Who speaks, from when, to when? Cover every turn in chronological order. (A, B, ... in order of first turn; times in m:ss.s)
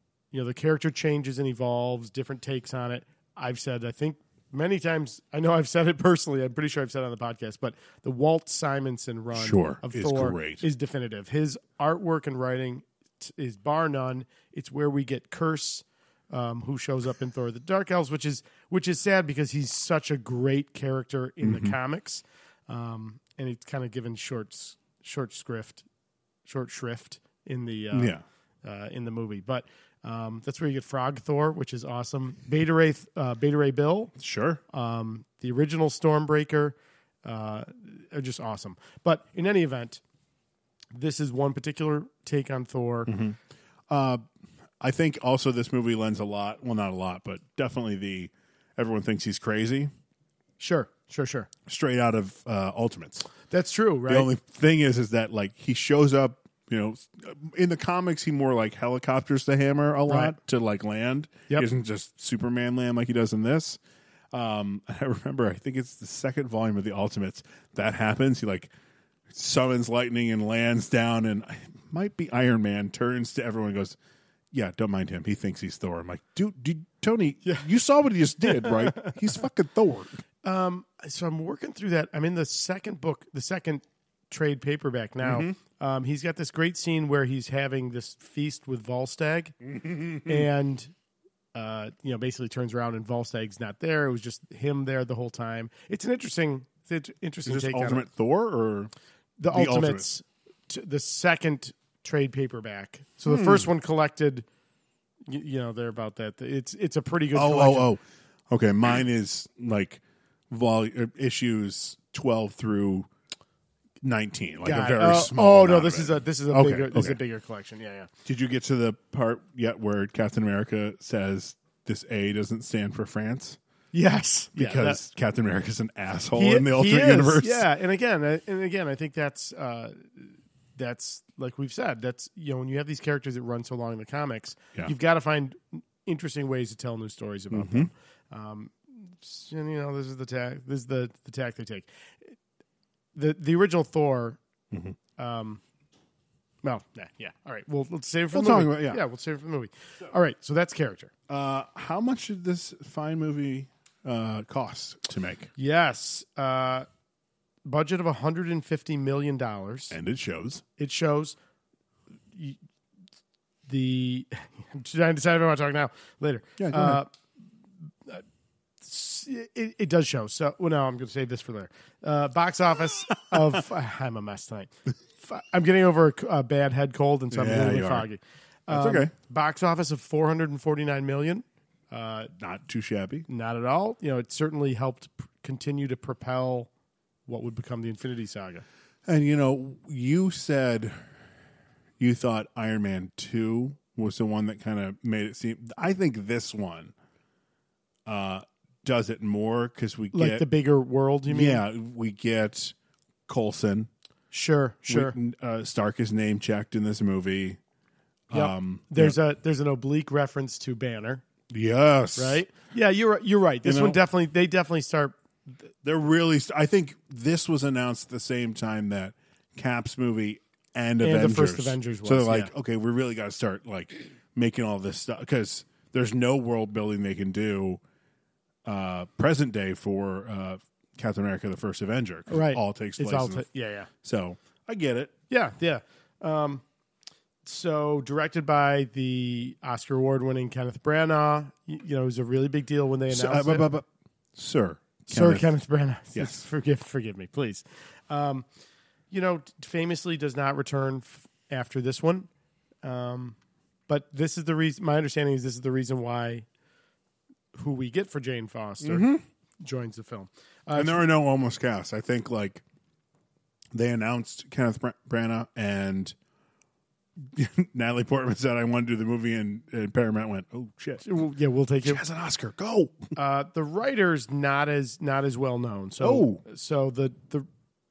0:00.3-0:25.8 A
0:09.3-0:10.6 B
0:21.4-0:21.8 B
0:26.5-0:34.1 A
0:27.9-0:28.2 B
0:34.2-0:34.6 B
0:34.7-0:40.0 A
0:40.9-0:43.1 A
0:43.1-0:43.4 B
0:43.9-0:44.2 B
0:44.8-0:49.9 B
0:50.6-0:51.5 A
0:51.7-0:53.3 B
0:53.5-0:54.3 A
0:54.1-1:03.8 B
1:00.1-1:00.4 A
1:04.3-1:08.7 B
1:09.3-1:14.0 B
1:14.5-1:20.2 B
1:18.5-1:19.2 A
1:20.4-1:29.7 A
1:25.2-1:25.6 B
1:29.7-1:30.4 B
1:30.2-1:30.9 A
1:31.5-1:38.0 A
1:37.4-1:38.9 B
1:39.4-1:44.5 A
1:39.5-1:40.1 B
1:43.3-1:43.7 B
1:45.3-1:47.9 A
1:47.3-1:53.1 B
1:54.0-1:57.2 B
1:54.6-1:58.1 A
1:58.3-2:03.6 B
2:03.9-2:05.0 A
2:04.6-2:07.7 B
2:06.3-2:22.3 A
2:17.5-2:17.9 B
2:23.2-2:24.4 A
2:24.7-2:25.0 B
2:25.2-2:25.6 A
2:26.6-2:31.1 A
2:28.3-2:29.0 B
2:31.3-2:35.5 B
2:35.6-2:36.9 A
2:37.6-2:40.0 A
2:39.9-2:40.6 B
2:40.8-2:41.4 A
2:42.3-2:42.6 A
2:43.7-2:47.1 A
2:46.6-2:47.0 B
2:48.8-3:02.3 A
2:57.3-2:58.1 B
2:58.7-2:59.1 B
3:02.4-3:03.3 B
3:03.3-3:06.7 A
3:07.3-3:08.6 A
3:09.1-3:11.0 B
3:12.0-3:16.9 B
3:18.1-3:20.5 B
3:20.1-3:21.6 A
3:21.3-3:22.8 B
3:23.3-3:23.9 B
3:24.3-3:25.2 A
3:24.9-3:27.6 B
3:28.3-3:29.2 B
3:28.3-3:31.2 A
3:31.5-3:32.4 B
3:32.2-3:35.2 A
3:33.6-3:34.0 B
3:35.8-3:47.8 B
3:41.0-3:42.5 A
3:48.7-3:53.5 B
3:52.3-3:53.9 A
3:54.0-3:55.1 B
3:55.3-3:56.6 A
3:57.4-4:03.7 A
4:03.1-4:05.5 B
4:05.1-4:08.5 A
4:06.1-4:06.5 B
4:09.1-4:12.3 A
4:12.8-4:13.4 A
4:13.9-4:16.5 A
4:17.5-4:21.1 A
4:18.8-4:19.2 B
4:20.7-4:22.6 B
4:23.7-4:26.1 B
4:27.2-4:31.2 B
4:31.0-4:32.0 A
4:31.8-4:33.1 B
4:33.2-4:37.5 A
4:36.0-4:36.4 B